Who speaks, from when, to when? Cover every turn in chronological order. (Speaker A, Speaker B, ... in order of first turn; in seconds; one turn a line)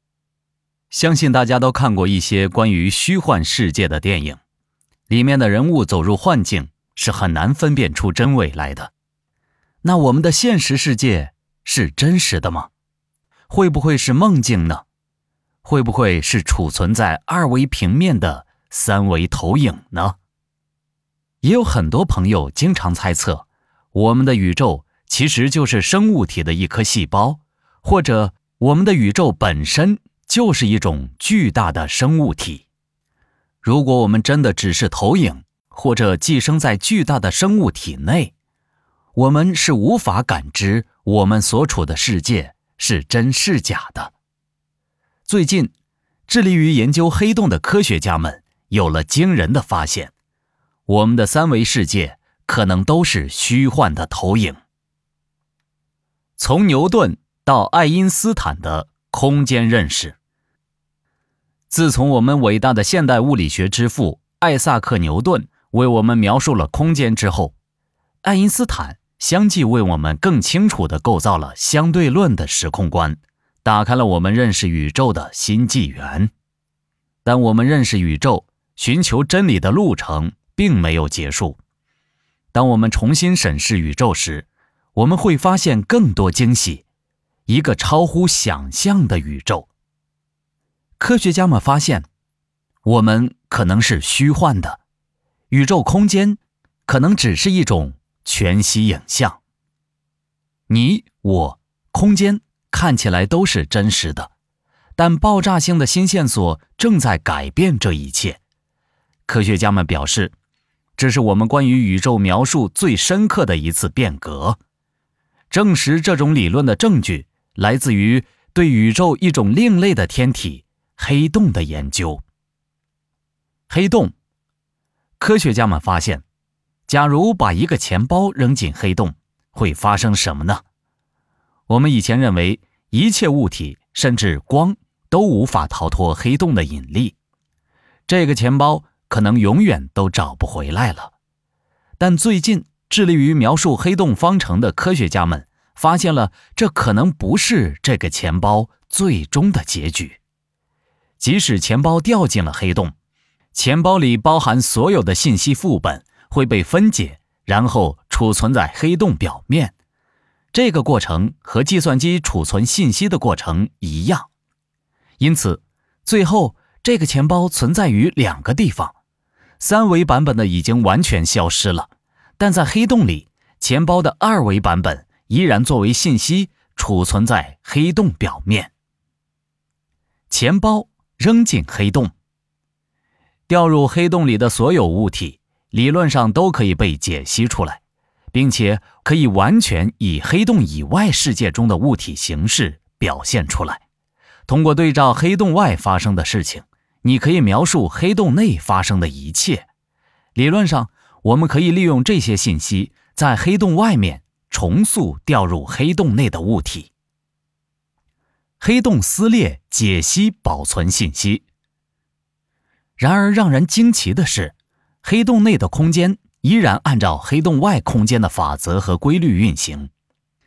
Speaker A: 0.9-4.4
Speaker A: 5.1-8.9
Speaker A: 9.8-12.7
Speaker A: 13.5-14.8
Speaker A: 15.6-20.2
Speaker A: 21.4-32.7
Speaker A: 33.6-38.3
Speaker A: 39.1-44.1
Speaker A: 45.3-45.7
Speaker A: 46.3-50.1
Speaker A: 50.9-54.6
Speaker A: 56.4-60.2
Speaker A: 61.7-67.5
Speaker A: 68.2-76.3
Speaker A: 77.2-81.6
Speaker A: 82.5-86.8
Speaker A: 87.5-89.7
Speaker A: 91.0-92.1
Speaker A: 92.8-94.8
Speaker A: 95.5-99.4
Speaker A: 100.7-104.3
Speaker A: 105.0-108.4
Speaker A: 109.3-110.3
Speaker A: 111.0-114.6
Speaker A: 115.5-122.2
Speaker A: 123.7-124.1
Speaker A: 125.2-126.2
Speaker A: 126.9-130.6
Speaker A: 131.7-137.2
Speaker A: 138.1-141.1
Speaker A: 142.0-150.2
Speaker A: 151.2-152.9
Speaker A: 153.5-159.7
Speaker A: 160.5-164.3
Speaker A: 165.2-169.0
Speaker A: 169.6-178.7
Speaker A: 180.3-182.1
Speaker A: 183.5-193.8
Speaker A: 194.5-199.7
Speaker A: 200.3-206.9
Speaker A: 208.6-211.4
Speaker A: 213.0-219.9